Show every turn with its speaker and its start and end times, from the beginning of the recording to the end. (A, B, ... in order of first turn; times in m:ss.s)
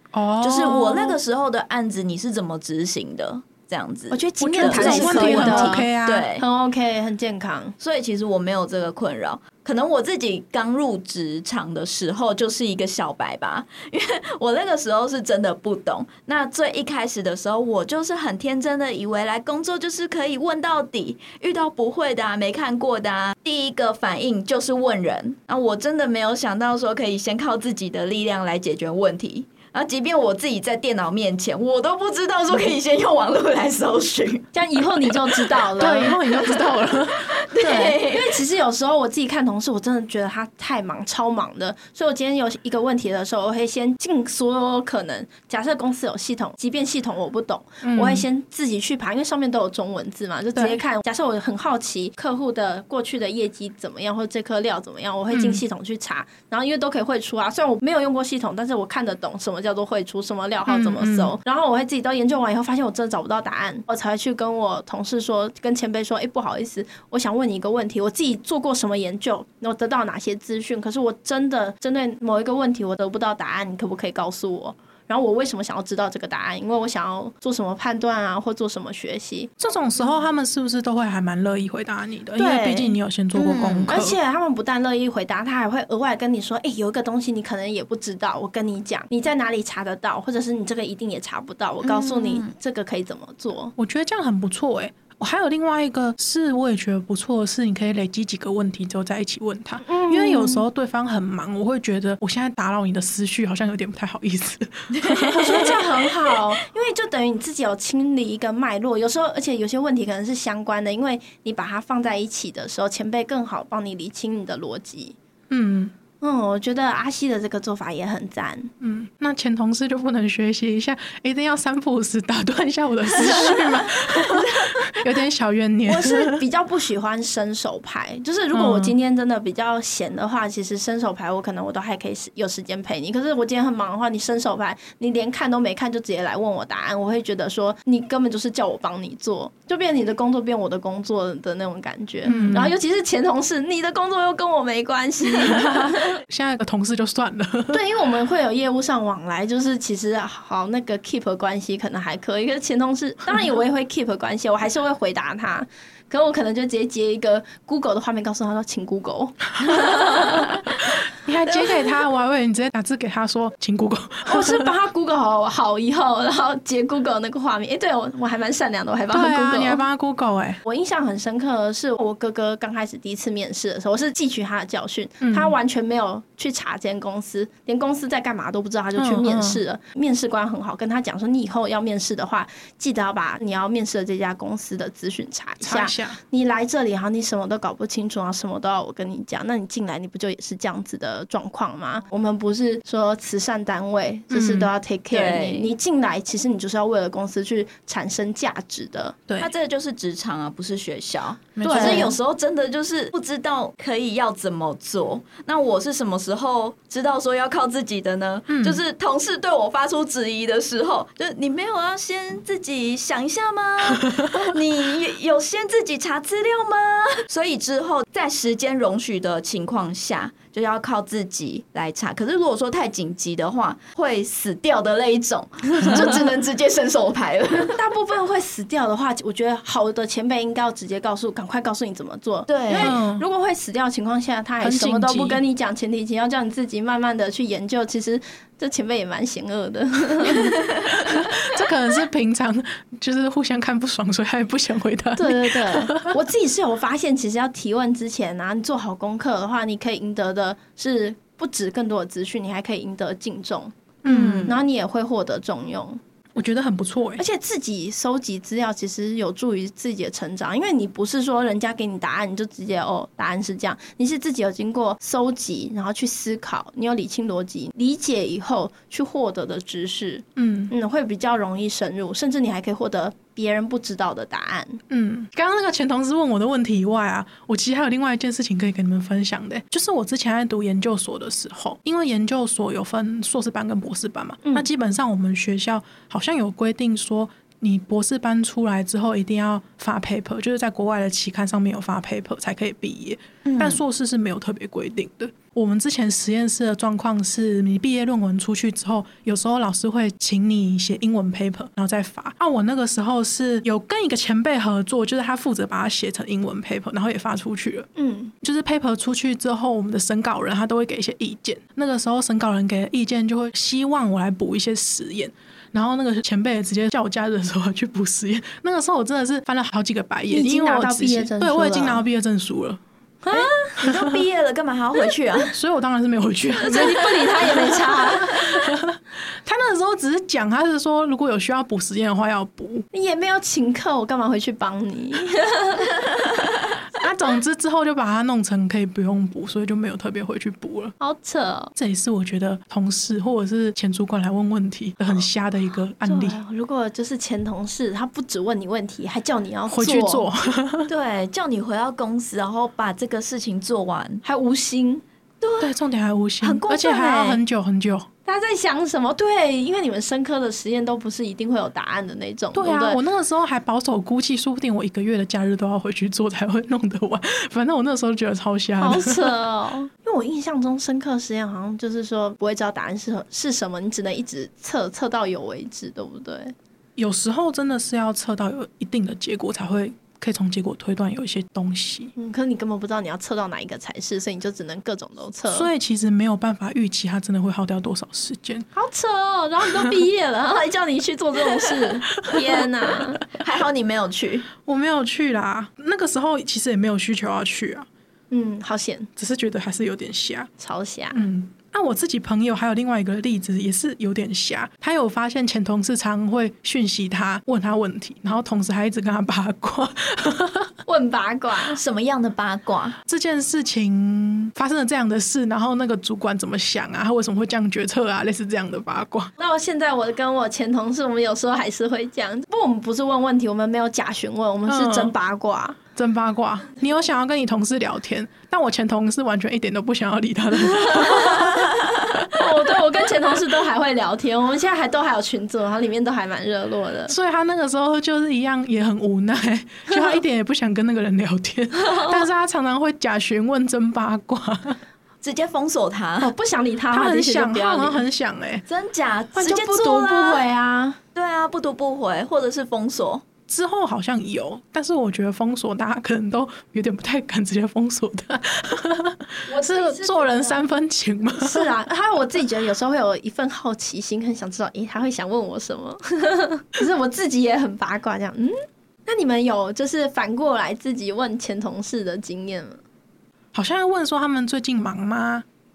0:00.1-0:01.2 A
0:00.4-0:06.4 B
0:04.1-0:07.8 C
0:04.4-0:06.3 A
0:07.8-0:34.5 B
0:34.5-0:36.5 C
0:35.0-0:36.6 B
0:35.8-0:37.3 A
0:37.2-0:38.4 B
0:37.6-1:19.5 C
0:47.8-0:48.2 A
0:50.5-0:50.8 A
0:55.3-0:55.6 A
1:00.7-1:01.3 A
1:19.6-1:24.2 A
1:22.4-1:23.0 C
1:23.3-1:24.0 B
1:23.9-1:33.7 C
1:31.8-1:32.5 B
1:33.8-1:46.3 A
1:39.8-1:40.7 C
1:45.0-1:45.7 B
1:45.3-1:55.2 C
1:55.5-1:55.9 A
1:56.2-1:58.7 C
1:58.8-2:06.4 A
2:03.2-2:05.0 B
2:05.8-2:26.2 C
2:08.5-2:08.9 A
2:22.2-2:22.7 A
2:25.4-2:27.8 A
2:27.7-2:40.6 C
2:41.2-2:44.7 A
2:41.5-2:41.8 C
2:44.2-2:49.8 C
2:49.1-2:50.6 A
2:50.6-3:19.2 C
2:55.2-2:55.5 A
2:59.0-2:59.6 A
3:05.6-3:06.2 A
3:14.3-3:14.7 A
3:15.1-3:15.7 B
3:19.3-3:19.5 A
3:19.4-3:47.8 B
3:21.6-3:22.2 A
3:21.6-3:22.1 C
3:28.5-3:28.8 A
3:47.7-4:00.6 C
3:52.5-3:53.0 B
3:52.8-3:53.2 A
3:54.6-3:55.4 A
4:01.0-4:06.1 A
4:05.2-4:13.7 C
4:14.0-4:14.5 A
4:14.0-4:14.6 B
4:14.4-4:16.0 C
4:16.4-4:17.2 A
4:17.2-4:34.8 C
4:30.4-4:30.7 A
4:34.9-5:07.9 A
4:53.4-4:53.8 B
5:08.0-5:08.3 C
5:08.4-5:22.8 A
5:20.3-5:22.0 C
5:23.2-5:23.8 C
5:23.3-5:24.2 A
5:23.3-5:25.5 B
5:25.5-5:32.9 A
5:26.6-5:28.5 C
5:32.9-5:35.9 C
5:37.0-5:40.9 A
5:41.0-5:41.7 C
5:41.8-5:46.4 A
5:46.0-5:50.3 C
5:49.7-5:50.9 A
5:50.9-5:54.2 B
5:54.2-5:55.0 C
5:55.4-5:55.7 B
5:55.6-5:58.1 A
5:56.4-5:57.4 B
5:58.2-6:03.0 C
6:02.5-6:09.3 A
6:08.8-6:16.5 C
6:17.0-6:22.1 A
6:22.2-6:25.7 C
6:25.5-6:28.6 A
6:28.7-6:33.2 C
6:33.3-6:34.5 B
6:34.6-6:37.9 A
6:38.3-6:39.1 C
6:39.2-6:40.5 A
6:40.6-6:41.2 C
6:41.1-6:50.7 A
6:50.9-6:51.8 C
6:51.7-6:53.0 B
6:53.1-6:59.3 A
6:59.4-7:05.8 C
7:04.7-7:05.1 A
7:06.0-7:12.2 A
7:11.0-7:11.4 C
7:12.3-7:17.1 C
7:17.1-7:24.8 A
7:21.8-7:22.1 C
7:25.2-7:26.3 B
7:26.2-7:28.0 C
7:26.9-7:28.6 A
7:28.7-7:30.4 B
7:29.3-7:30.1 A
7:29.4-7:31.0 C
7:31.1-7:33.2 B
7:33.5-7:41.7 A
7:39.5-7:40.6 C
7:41.4-7:48.5 C
7:49.0-7:52.8 C
7:53.5-7:55.4 A